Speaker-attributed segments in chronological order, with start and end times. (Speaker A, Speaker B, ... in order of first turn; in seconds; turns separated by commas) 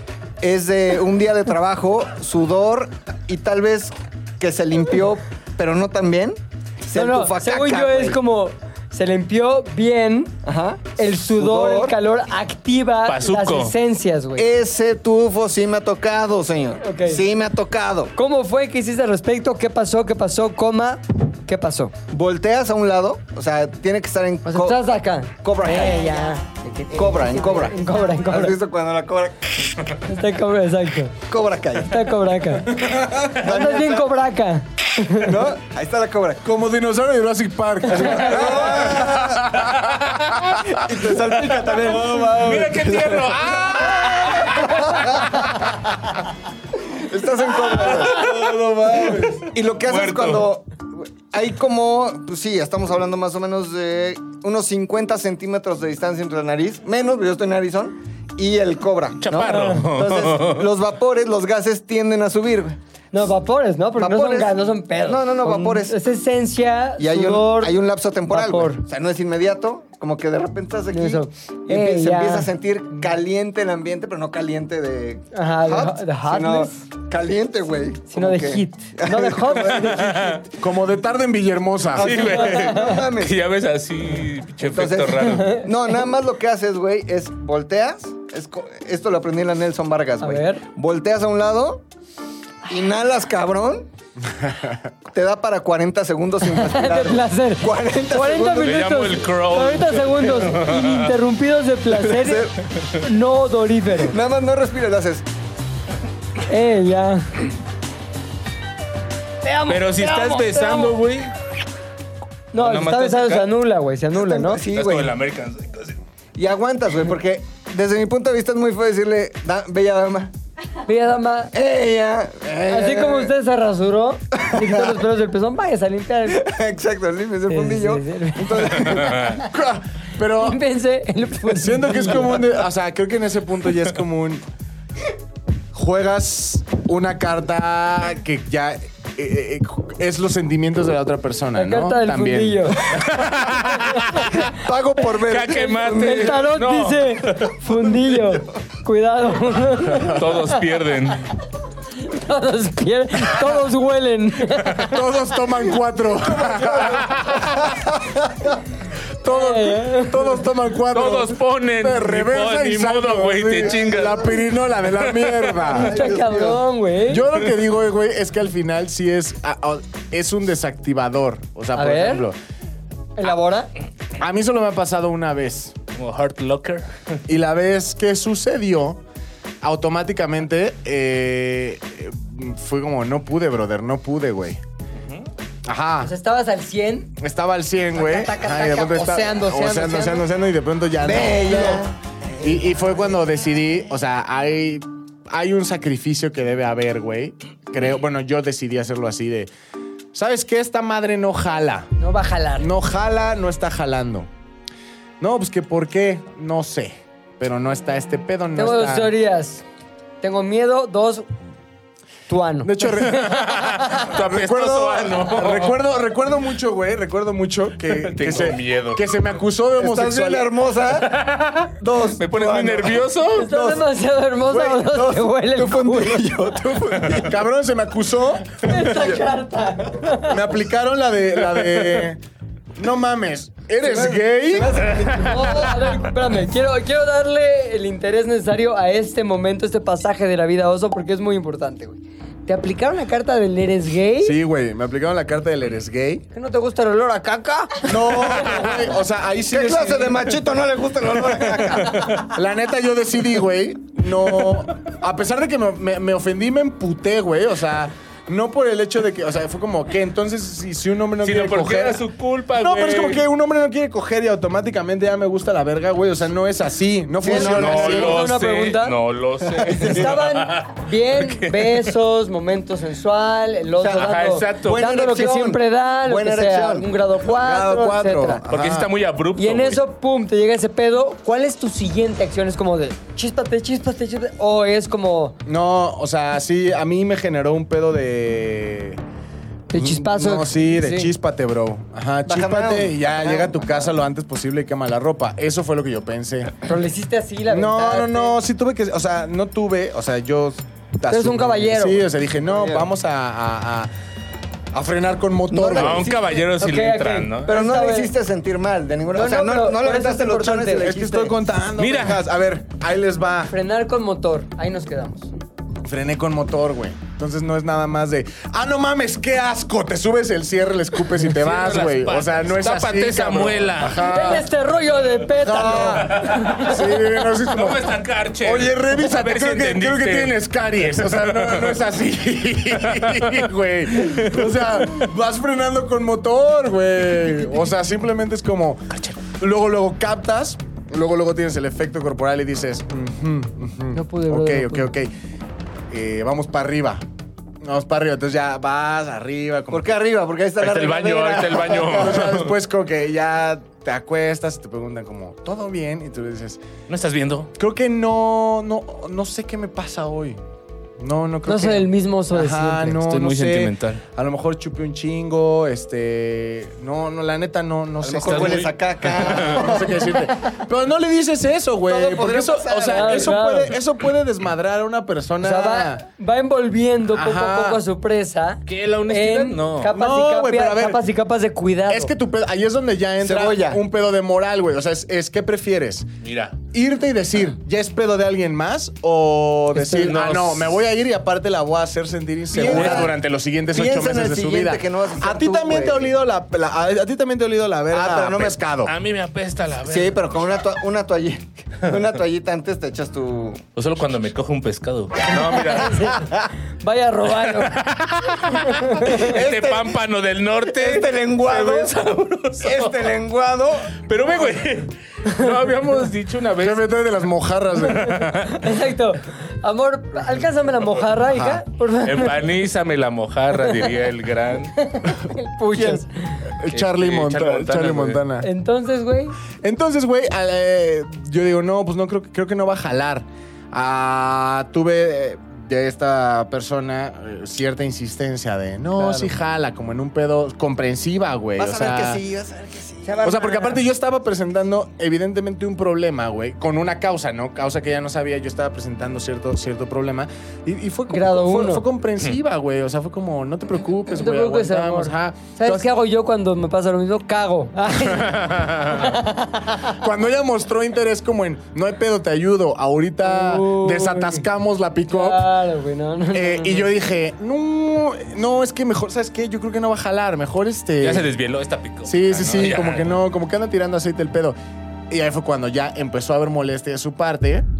Speaker A: 0.4-8.2, Speaker B: 6.9-10.4, Speaker A: 10.4-11.9, Speaker B: 11.0-14.5, Speaker C: 13.1-13.7, Speaker A: 14.4-18.1, Speaker B: 16.8-17.2, Speaker B: 18.1-21.9, Speaker A: 22.1-24.8, Speaker B: 24.4-28.6, Speaker A: 25.4-26.3, Speaker A: 26.9-29.7, Speaker B: 30.0-31.1, Speaker A: 31.3-32.1, Speaker B: 31.8-32.8, Speaker D: 32.8-33.3, Speaker A: 33.2-34.1, Speaker B: 33.4-35.3, Speaker A: 35.1-36.4, Speaker D: 36.4-40.7, Speaker A: 37.9-39.5, Speaker B: 38.0-38.2, Speaker C: 39.8-40.2, Speaker A: 40.6-45.6, Speaker C: 41.7-45.3, Speaker D: 41.8-42.7, Speaker A: 46.9-48.3, Speaker C: 47.7-48.5, Speaker D: 48.0-49.4, Speaker A: 49.1-62.8, Speaker C: 49.8-50.5, Speaker C: 59.2-60.7, Speaker B: 59.4-59.9, Speaker B: 63.1-67.8, Speaker A: 64.0-66.0, Speaker A: 67.0-80.4, Speaker B: 68.3-68.8, Speaker B: 70.9-72.5, Speaker B: 75.3-76.7, Speaker B: 78.1-80.2, Speaker C: 79.5-80.4, Speaker D: 80.6-82.3, Speaker A: 82.0-83.3, Speaker C: 82.0-85.6, Speaker B: 82.3-83.0, Speaker A: 84.6-91.8, Speaker B: 85.3-85.7, Speaker B: 90.2-90.6, Speaker A: 92.7-93.9, Speaker D: 94.4-94.7, Speaker A: 95.1-98.8, Speaker B: 96.5-104.2, Speaker C: 98.6-101.1, Speaker A: 101.9-102.5, Speaker A: 104.0-105.2, Speaker B: 106.5-107.4, Speaker B: 109.4-111.0, Speaker C: 109.7-111.3, Speaker B: 112.5-114.6, Speaker C: 112.5-113.5, Speaker A: 114.1-115.1, Speaker C: 114.7-116.0, Speaker A: 116.3-120.3, Speaker B: 120.8-121.5, Speaker A: 121.5-123.3, Speaker B: 122.7-126.4, Speaker A: 124.3-125.0, Speaker A: 126.3-129.4, Speaker B: 127.5-129.1, Speaker C: 128.8-129.4, Speaker D: 129.4-130.6, Speaker B: 130.4-132.5, Speaker D: 131.4-134.4, Speaker D: 135.7-142.8, Speaker B: 141.5-142.8, Speaker C: 142.9-144.5, Speaker A: 144.3-146.4, Speaker C: 145.1-147.6, Speaker B: 145.9-150.6, Speaker C: 150.0-151.3, Speaker B: 152.0-154.9, Speaker D: 154.8-157.4, Speaker A: 156.5-156.9, Speaker A: 158.0-158.3, Speaker D: 159.2-165.9, Speaker B: 159.2-160.4, Speaker C: 160.9-165.7, Speaker A: 163.6-164.2, Speaker A: 165.7-166.6, Speaker B: 165.8-167.2, Speaker D: 167.1-172.4, Speaker B: 171.7-172.3, Speaker B: 173.2-173.7, Speaker D: 174.2-175.8, Speaker C: 175.9-176.9, Speaker D: 177.3-179.0, Speaker D: 179.6-184.6, Speaker D: 185.7-186.1, Speaker B: 186.0-187.1, Speaker D: 187.2-191.9, Speaker B: 187.9-190.2, Speaker A: 191.0-191.9, Speaker D: 192.4-199.5, Speaker D: 200.1-201.9, Speaker B: 202.0-202.7, Speaker D: 202.6-204.3, Speaker D: 205.2-209.1, Speaker B: 208.6-209.6, Speaker B: 210.2-211.3, Speaker B: 212.3-213.2, Speaker D: 212.6-220.5, Speaker C: 213.2-215.8, Speaker C: 217.9-219.0, Speaker A: 219.8-221.2, Speaker C: 221.0-223.5, Speaker A: 221.8-223.8, Speaker B: 223.3-226.3, Speaker A: 224.4-227.3, Speaker D: 227.1-228.7, Speaker B: 228.6-230.4, Speaker A: 228.8-229.2, Speaker D: 230.2-232.2, Speaker D: 232.8-234.8, Speaker A: 233.8-236.0, Speaker B: 235.1-244.4, Speaker D: 244.2-246.2, Speaker B: 246.3-248.7, Speaker D: 247.8-250.4, Speaker A: 249.5-252.1, Speaker C: 251.9-252.2, Speaker D: 252.3-262.0, Speaker C: 261.2-263.2, Speaker D: 262.6-268.2, Speaker A: 267.2-268.2, Speaker C: 267.3-271.9, Speaker B: 267.6-269.0, Speaker A: 269.5-270.1, Speaker B: 269.7-278.4, Speaker A: 273.8-276.9, Speaker C: 273.9-274.8, Speaker D: 277.3-278.9, Speaker C: 278.5-279.8, Speaker B: 279.4-285.4, Speaker D: 285.4-289.0, Speaker B: 289.7-291.1, Speaker D: 289.7-296.5, Speaker A: 292.2-293.9, Speaker B: 296.6-298.4, Speaker D: 297.5-303.9, Speaker B: 301.1-302.0, Speaker A: 302.4-302.9, Speaker D: 304.7-306.1, Speaker A: 305.5-306.2, Speaker C: 305.7-307.5, Speaker B: 306.6-308.1, Speaker A: 307.4-311.4, Speaker B: 309.1-310.9, Speaker D: 310.8-313.5, Speaker C: 311.8-312.2, Speaker B: 313.5-315.3, Speaker D: 315.8-324.5, Speaker C: 321.2-324.0, Speaker B: 324.0-326.8, Speaker D: 325.3-327.9, Speaker C: 325.8-326.7, Speaker C: 327.5-331.8, Speaker D: 328.4-345.1, Speaker C: 332.8-335.1, Speaker B: 343.9-344.9, Speaker D: 345.9-347.0, Speaker D: 347.6-350.0, Speaker A: 349.7-352.2, Speaker C: 350.6-352.5, Speaker D: 351.9-356.6, Speaker C: 356.9-357.5, Speaker D: 357.6-360.4, Speaker D: 361.0-376.0, Speaker B: 361.4-363.0, Speaker C: 363.0-364.0, Speaker A: 368.0-370.3, Speaker C: 368.2-369.6, Speaker A: 371.9-373.3, Speaker B: 372.9-373.7, Speaker B: 375.4-382.1, Speaker D: 377.1-377.8, Speaker C: 378.7-379.9, Speaker D: 379.9-381.0, Speaker D: 381.9-386.1, Speaker A: 383.2-383.8, Speaker C: 386.2-386.6, Speaker D: 386.7-398.9, Speaker B: 389.7-390.1, Speaker C: 389.9-390.7, Speaker C: 392.5-393.1, Speaker A: 392.5-393.1, Speaker A: 393.7-396.1, Speaker A: 397.9-398.6, Speaker C: 398.8-400.2, Speaker A: 399.9-403.6, Speaker C: 403.8-406.1, Speaker B: 405.5-407.8, Speaker A: 405.9-406.5, Speaker C: 407.4-413.1, Speaker B: 408.5-409.3, Speaker A: 409.1-410.0, Speaker A: 410.6-411.9, Speaker A: 412.6-413.9, Speaker C: 414.0-416.9, Speaker D: 416.6-418.2, Speaker C: 417.8-418.7, Speaker B: 418.4-422.4, Speaker D: 421.3-421.6, Speaker C: 422.0-424.7, Speaker B: 424.8-426.4, Speaker D: 426.5-428.5, Speaker C: 426.7-428.2, Speaker B: 428.4-429.3, Speaker D: 429.6-442.2, Speaker B: 438.9-439.3, Speaker A: 441.6-443.3, Speaker B: 443.0-443.8, Speaker D: 443.2-455.9, Speaker B: 451.1-451.9, Speaker B: 454.1-459.9, Speaker C: 458.0-459.1, Speaker D: 459.9-465.5, Speaker B: 463.2-464.4, Speaker B: 465.1-466.9, Speaker D: 466.3-471.3, Speaker C: 471.0-473.2, Speaker D: 472.0-474.6, Speaker D: 475.1-477.7